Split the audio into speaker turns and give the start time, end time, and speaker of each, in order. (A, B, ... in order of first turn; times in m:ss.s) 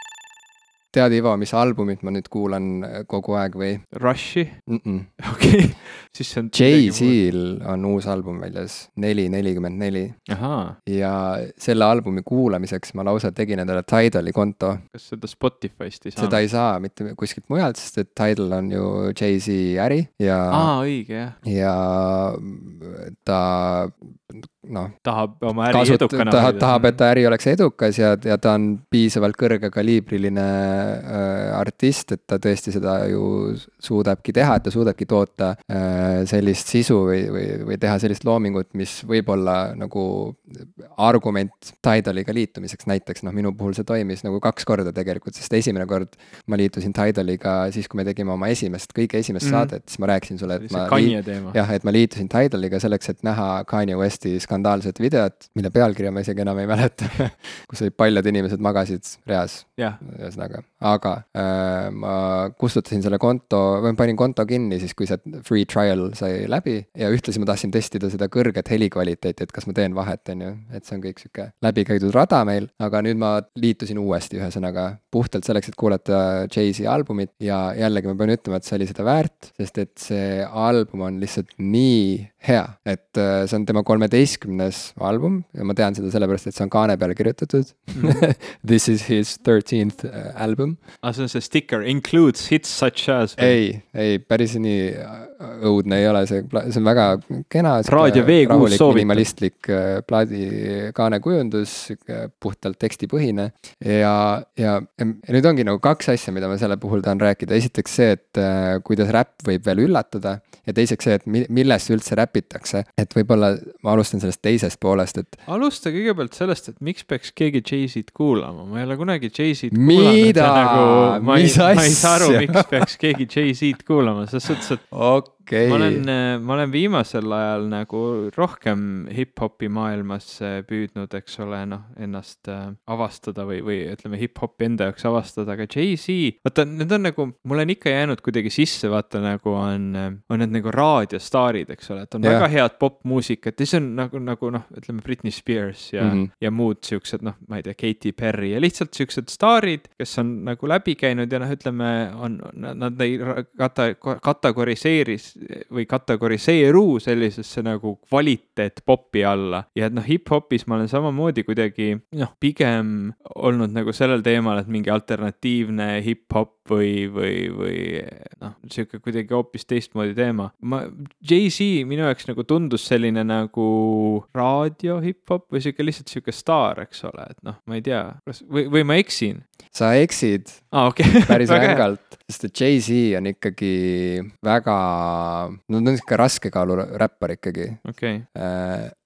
0:00.9-0:03.9 A
0:03.9-0:04.6 B
0:04.7-0:05.1 A
0:05.2-0:07.2 B
0:06.5-0:10.2 A
0:10.3-0:10.8 B
0:10.9-0:14.8 A
0:14.9-0:16.4 B
0:16.2-0:20.7 A
0:20.5-0:21.4 B
0:21.4-0:25.0 A
0:25.0-0:27.0 B
0:25.7-1:30.8 A
0:49.4-0:49.7 B
0:50.6-0:51.6 B
1:28.0-1:28.2 B
1:31.0-1:33.6 B
1:33.4-1:55.4 A
1:37.9-1:39.3 B
1:55.5-2:04.9 B
1:59.7-2:02.9 A
2:04.9-2:06.0 A
2:05.6-2:59.4 B
2:22.2-2:22.5 A
2:26.0-2:26.3 A
2:59.7-3:08.9 A
3:00.7-3:01.8 B
3:07.8-3:08.3 B